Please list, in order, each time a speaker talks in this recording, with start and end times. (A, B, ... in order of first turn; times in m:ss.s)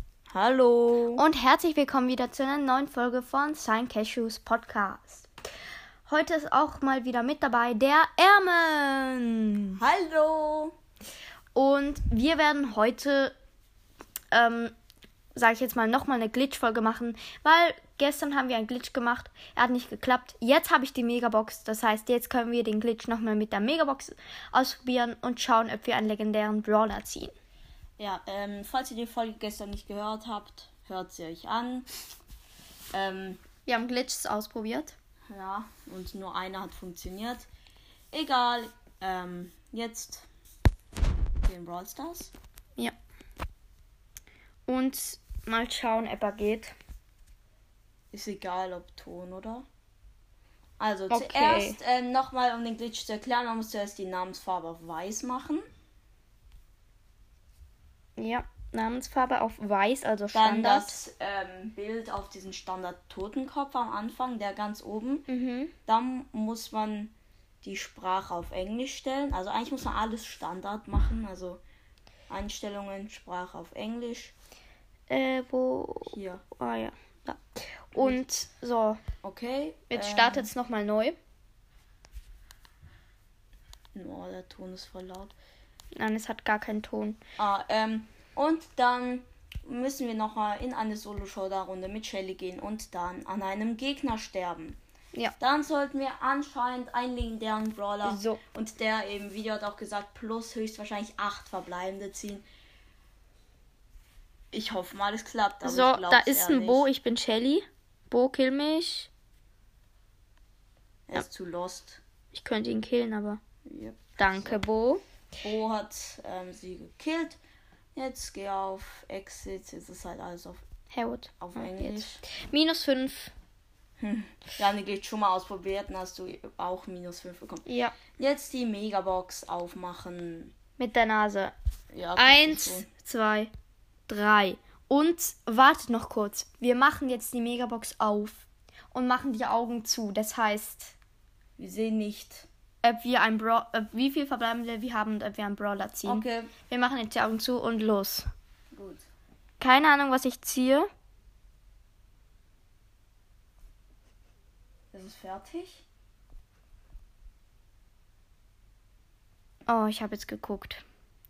0:00.3-0:01.2 A
0:01.1-0:05.3 B
0:06.1-0:09.8 B
0:09.8-0:10.7 A
0:11.5-0:13.3 B
0:14.3-0:14.7 B
0:15.3-0:27.3 B
0:28.0-0:31.9 A
0:32.9-0:33.4 A
0:33.6-0:34.9 B
0:35.3-0:37.5 A
0:38.1-0:40.3 A
0:41.4-0:42.3 A
0:44.7-0:46.7 B
0:48.1-0:49.6 A
0:50.8-0:55.6 A
0:51.1-0:51.8 B
0:58.2-1:01.0 B
1:00.3-1:05.3 A
1:05.3-1:05.7 B
1:05.8-1:11.6 A
1:12.3-1:14.3 A
1:15.1-1:19.0 B
1:16.1-1:16.4 A
1:18.0-1:18.2 A
1:19.2-1:20.5 A
1:19.9-1:21.2 B
1:23.9-1:25.4 A
1:25.9-1:27.2 B
1:27.4-1:34.8 A
1:35.4-1:42.4 A
1:38.0-1:38.4 B
1:44.5-1:46.9 A
1:45.6-1:49.1 B
1:51.1-1:52.0 A
1:52.3-1:53.4 B
1:53.6-1:54.6 A
1:54.2-1:55.0 B
1:55.4-1:57.4 A
1:58.0-2:00.6 A
2:00.9-2:03.3 B
2:01.4-2:02.2 A
2:04.0-2:10.5 A
2:07.6-2:07.9 B
2:10.8-2:11.5 B
2:11.9-2:12.9 A
2:12.2-2:13.5 B
2:14.1-2:20.9 B
2:21.6-2:22.5 A
2:22.8-2:28.2 B
2:26.0-2:26.5 A
2:28.7-2:29.0 A
2:29.6-2:30.9 B
2:34.9-2:35.8 A
2:39.7-2:40.8 B